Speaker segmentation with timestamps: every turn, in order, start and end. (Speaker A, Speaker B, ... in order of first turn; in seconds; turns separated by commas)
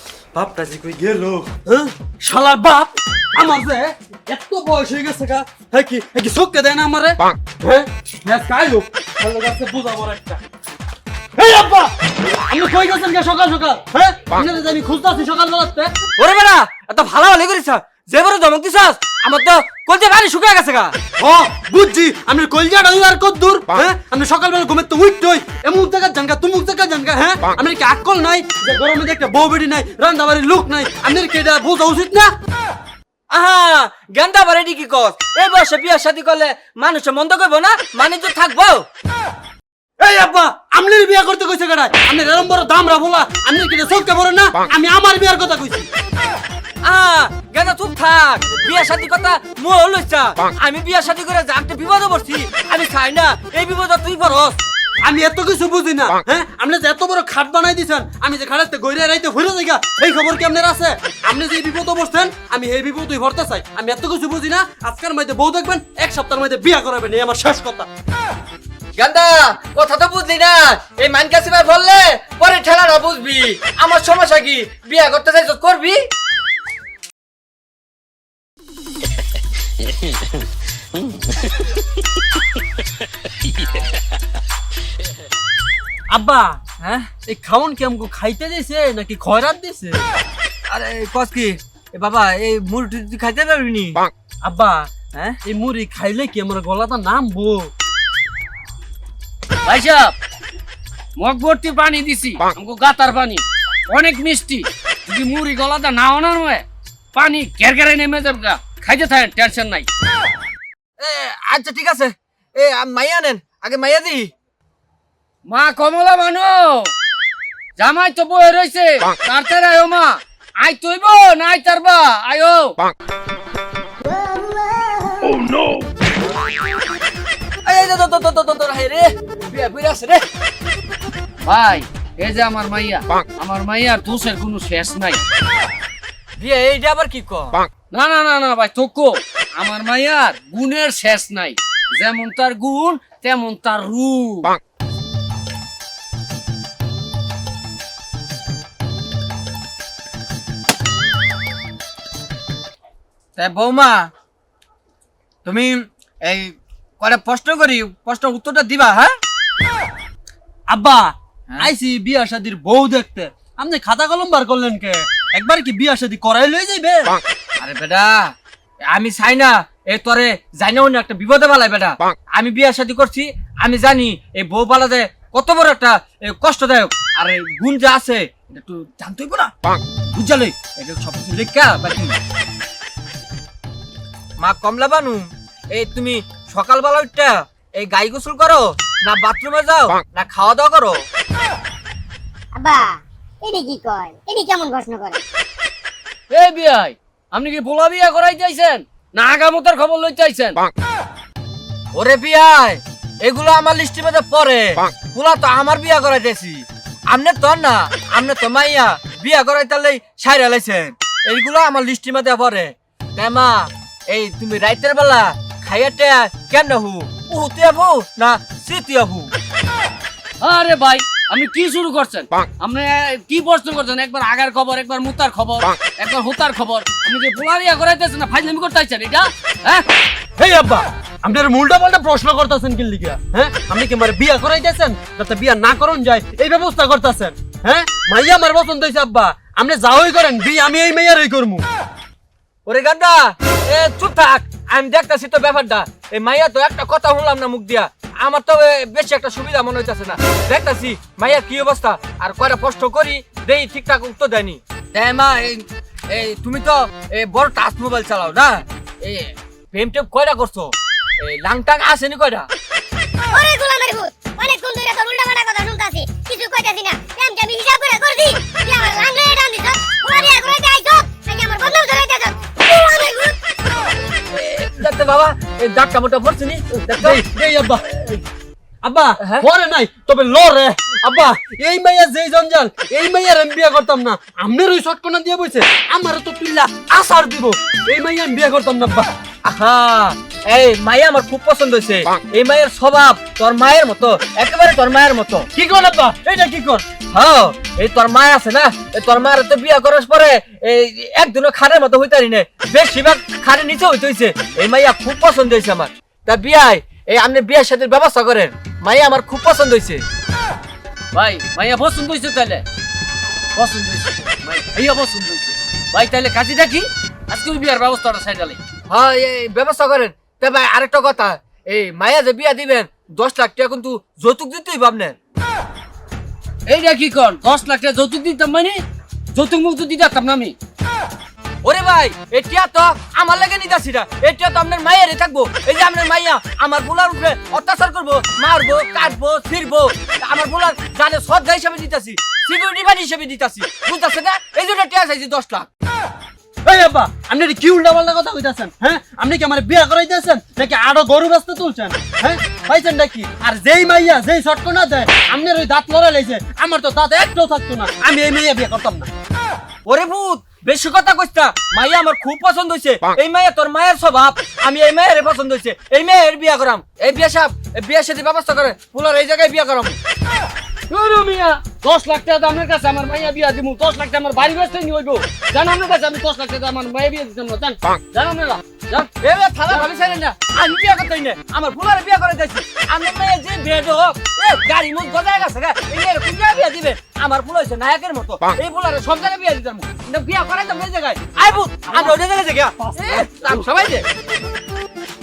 Speaker A: 0.3-10.4, Speaker A: 11.4-11.9, Speaker A: 12.5-15.9, Speaker B: 16.2-20.9, Speaker A: 21.2-32.3, Speaker B: 33.3-38.9, Speaker A: 40.0-45.9, Speaker B: 46.8-54.6, Speaker A: 55.0-67.9, Speaker B: 69.0-76.0, Speaker A: 86.1-86.6, Speaker B: 86.8-87.1, Speaker A: 87.3-90.1, Speaker B: 90.7-94.1, Speaker A: 94.4-94.9, Speaker B: 95.1-95.4, Speaker A: 95.5-97.7, Speaker C: 99.7-100.1, Speaker C: 101.2-109.9, Speaker B: 111.0-114.3, Speaker C: 115.5-116.9, Speaker C: 117.8-122.8, Speaker B: 127.7-130.2, Speaker C: 131.4-135.2, Speaker B: 136.4-137.7, Speaker C: 137.9-144.6, Speaker B: 153.4-154.1, Speaker B: 155.4-159.2, Speaker A: 160.7-167.2, Speaker B: 167.6-168.3, Speaker B: 168.9-179.5, Speaker B: 180.1-182.2, Speaker B: 184.4-191.0, Speaker D: 192.5-195.2, Speaker C: 196.3-200.6, Speaker B: 201.9-219.3, Speaker C: 220.4-229.8, Speaker A: 230.4-241.7, Speaker B: 242.7-262.5, Speaker D: 263.3-273.4, Speaker B: 274.3-277.2, Speaker A: 276.9-278.2, Speaker A: 278.8-289.1, Speaker B: 279.2-279.5, Speaker B: 289.4-295.5, Speaker A: 295.6-296.8, Speaker B: 297.1-310.1, Speaker C: 311.1-312.6, Speaker C: 313.6-318.6, Speaker B: 318.9-325.1, Speaker C: 326.7-328.8, Speaker C: 329.3-330.6, Speaker B: 331.6-345.7, Speaker A: 346.6-359.1, Speaker B: 359.9-370.0, Speaker C: 370.9-379.1, Speaker B: 379.2-394.1